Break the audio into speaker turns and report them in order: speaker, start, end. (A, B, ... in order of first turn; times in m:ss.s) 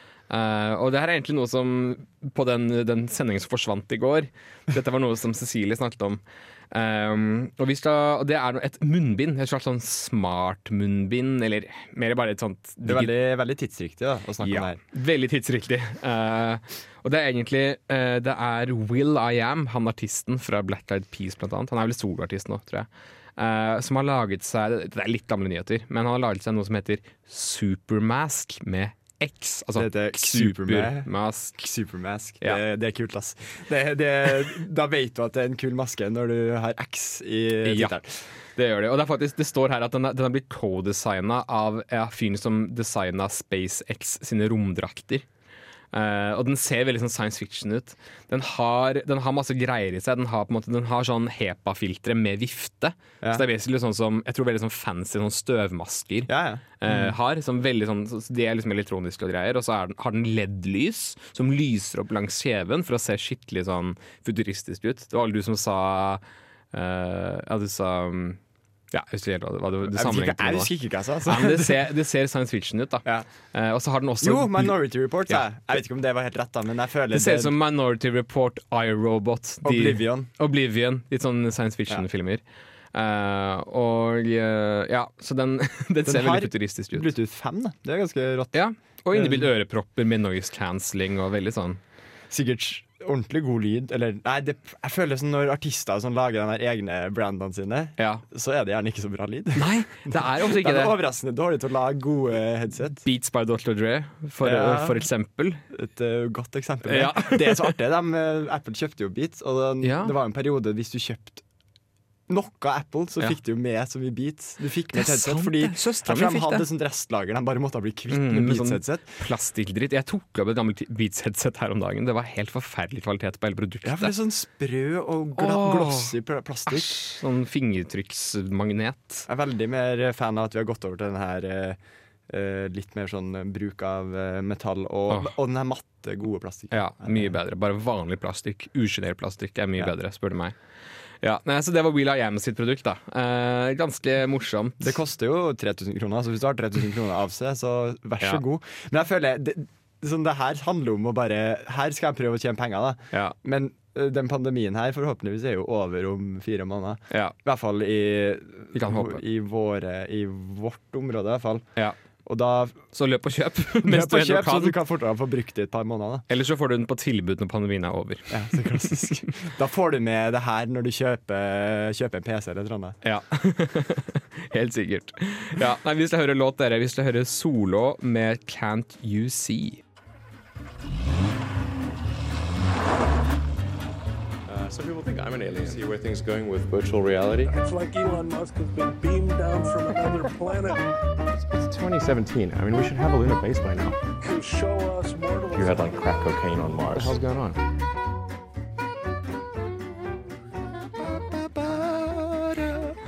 0:00.3-0:13.1 A
0:12.8-0:14.8 B
0:14.4-0:31.6 A
0:29.7-0:38.3 B
0:37.6-0:45.2 A
0:45.9-1:08.4 A
0:56.3-0:57.1 B
1:08.9-1:10.7 A
1:09.8-1:11.8 B
1:11.2-1:15.4 A
1:14.2-1:17.5 B
1:17.1-1:22.4 A
1:19.6-1:20.3 B
1:22.9-1:27.1 A
1:26.0-1:28.6 B
1:28.5-1:31.8 A
1:29.1-1:29.5 B
1:32.3-1:43.0 B
1:38.0-1:38.2 A
1:39.6-1:41.0 A
1:43.0-1:45.6 A
1:44.4-1:45.1 B
1:45.7-1:51.4 B
1:46.8-1:47.7 A
1:49.8-1:50.1 A
1:52.3-1:59.2 B
1:54.9-1:56.6 A
1:58.1-2:04.1 A
2:03.8-2:07.0 B
2:05.4-2:06.2 A
2:06.7-2:09.3 A
2:09.3-2:17.4 B
2:16.7-2:20.6 A
2:21.2-2:25.0 A
2:24.8-2:41.7 B
2:37.1-2:37.3 A
2:38.7-2:39.2 A
2:42.2-2:42.8 B
2:42.9-2:44.8 A
2:43.8-2:46.2 B
2:46.3-2:49.0 A
2:48.3-2:53.0 B
2:53.0-2:59.8 A
3:04.5-3:07.5 C
3:07.4-3:11.0 D
3:11.3-3:14.0 C
3:14.2-3:16.2 D
3:15.5-3:17.6 C
3:21.1-3:22.9 B